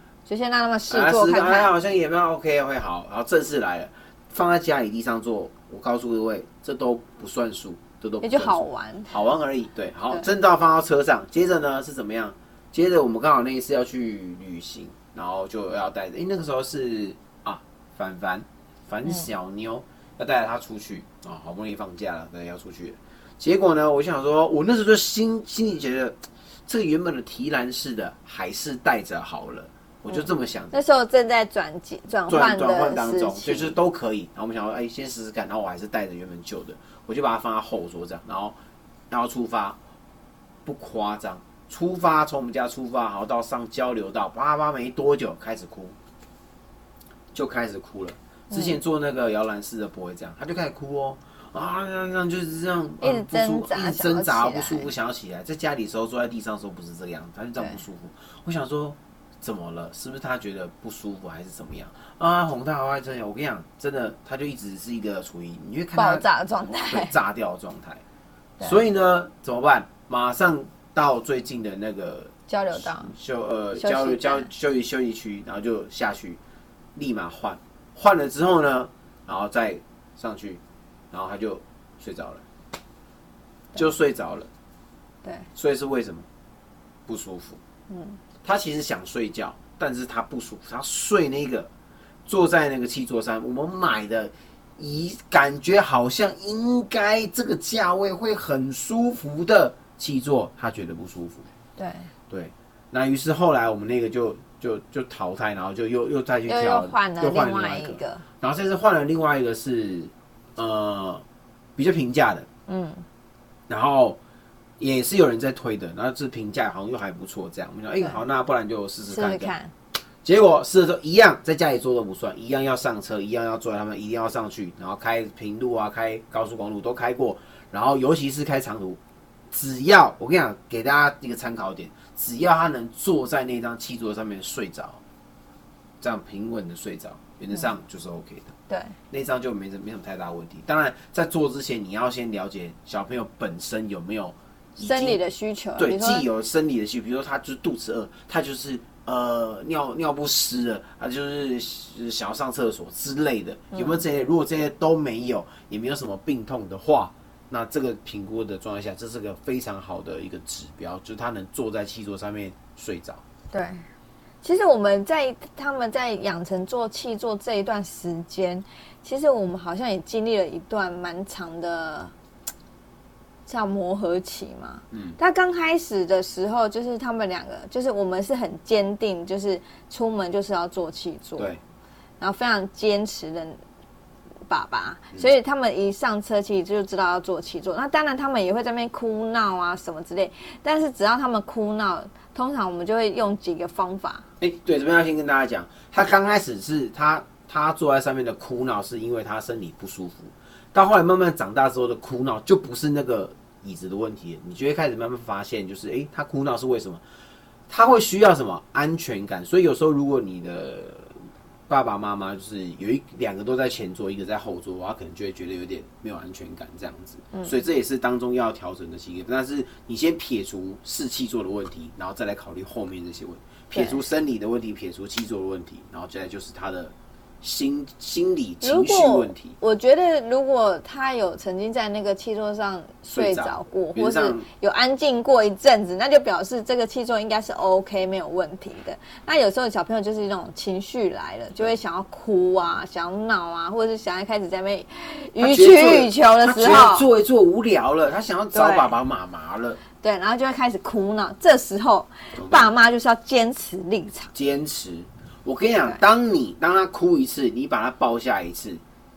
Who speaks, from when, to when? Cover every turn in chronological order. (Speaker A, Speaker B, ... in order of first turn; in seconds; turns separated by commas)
Speaker A: 0.3-1.7, Speaker B: 0.9-30.8, Speaker A: 8.2-9.1, Speaker A: 30.1-33.8, Speaker B: 32.3-38.6, Speaker B: 39.1-39.8, Speaker B: 40.6-46.0, Speaker B: 47.3-66.2, Speaker A: 48.5-48.8, Speaker A: 53.0-54.9, Speaker A: 66.0-67.1, Speaker B: 66.9-68.0, Speaker B: 68.6-76.4, Speaker A: 72.5-73.1, Speaker A: 73.8-74.5, Speaker B: 77.0-82.4, Speaker B: 83.8-84.5, Speaker B: 85.5-86.3, Speaker B: 87.1-87.6, Speaker A: 87.9-88.2, Speaker B: 88.4-91.7, Speaker B: 92.3-101.5, Speaker A: 101.8-102.1, Speaker B: 102.3-111.2, Speaker A: 106.5-108.2, Speaker B: 111.8-112.5, Speaker A: 112.7-113.0, Speaker B: 113.7-114.2, Speaker B: 114.8-119.5, Speaker A: 119.1-119.7, Speaker B: 120.2-129.0, Speaker B: 129.5-135.0, Speaker B: 136.0-138.6, Speaker A: 138.7-138.9, Speaker B: 139.1-145.2, Speaker A: 144.8-146.2, Speaker B: 145.8-163.2, Speaker A: 153.7-154.0, Speaker A: 163.5-163.8, Speaker A: 164.4-172.1, Speaker A: 173.5-181.6, Speaker B: 174.9-175.2, Speaker A: 182.2-183.6, Speaker A: 184.5-194.3, Speaker B: 194.4-207.0, Speaker B: 207.7-211.2, Speaker B: 211.7-229.6, Speaker A: 223.7-224.0, Speaker A: 228.6-247.1, Speaker B: 233.1-234.5, Speaker B: 245.4-249.8, Speaker A: 248.5-248.9, Speaker A: 250.0-254.3, Speaker B: 252.3-252.7, Speaker B: 254.3-258.8